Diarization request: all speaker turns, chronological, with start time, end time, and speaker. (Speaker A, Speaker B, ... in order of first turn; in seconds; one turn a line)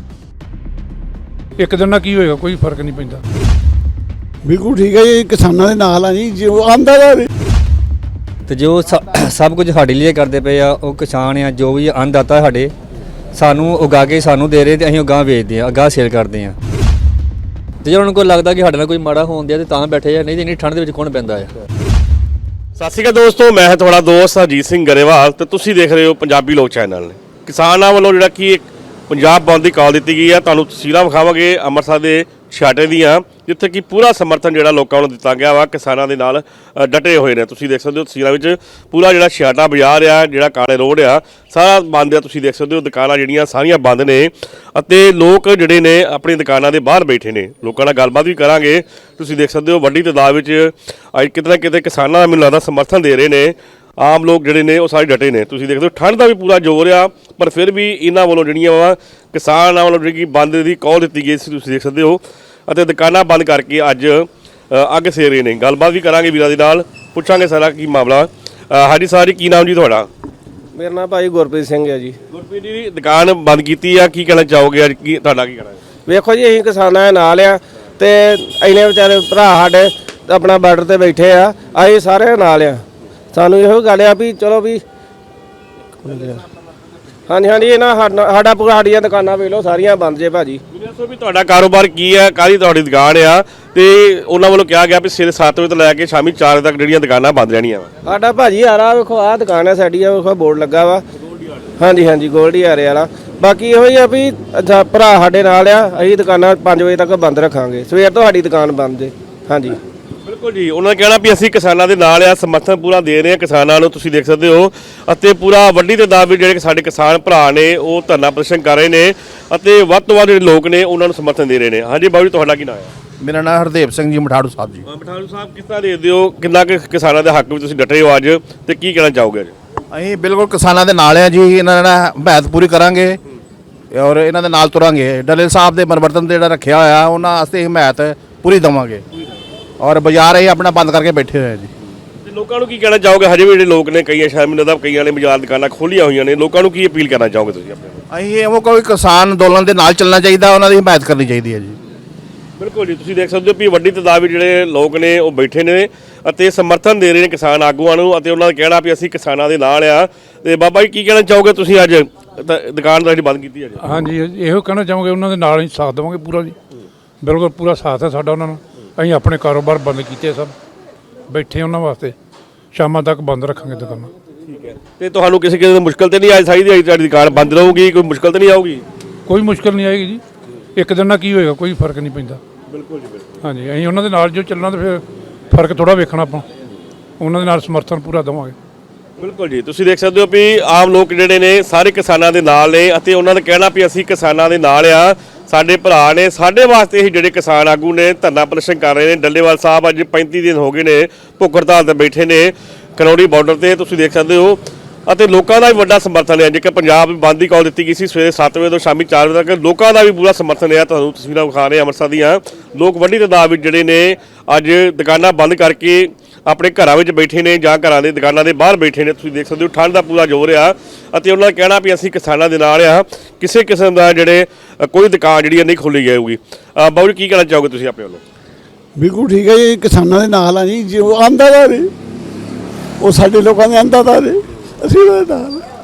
Speaker A: 1.6-3.2
Speaker B: 4.4-7.3
Speaker C: 8.5-12.7
Speaker C: 13.3-16.6
Speaker C: 17.8-21.5
Speaker D: 22.8-70.1
Speaker E: 70.8-72.2
Speaker D: 72.3-75.8
Speaker E: 76.1-84.8
Speaker E: 86.0-86.4
Speaker E: 87.3-90.6
Speaker D: 90.7-97.9
Speaker E: 98.0-101.0
Speaker E: 101.8-109.8
Speaker D: 110.2-122.9
Speaker F: 123.2-124.8
Speaker D: 124.8-129.5
Speaker F: 129.9-133.2
Speaker F: 133.9-139.0
Speaker F: 139.8-141.7
Speaker D: 142.2-148.0
Speaker F: 148.1-151.8
Speaker D: 152.6-163.8
Speaker A: 163.8-166.6
Speaker A: 167.2-170.5
Speaker A: 171.3-172.2
Speaker A: 172.7-174.1
Speaker D: 174.5-178.8
Speaker A: 179.3-180.2
Speaker A: 180.8-182.4
Speaker D: 182.7-183.4
Speaker A: 183.4-186.5
Speaker A: 187.2-188.6
Speaker D: 189.2-228.2
Speaker B: 229.0-231.9
Speaker B: 233.0-235.6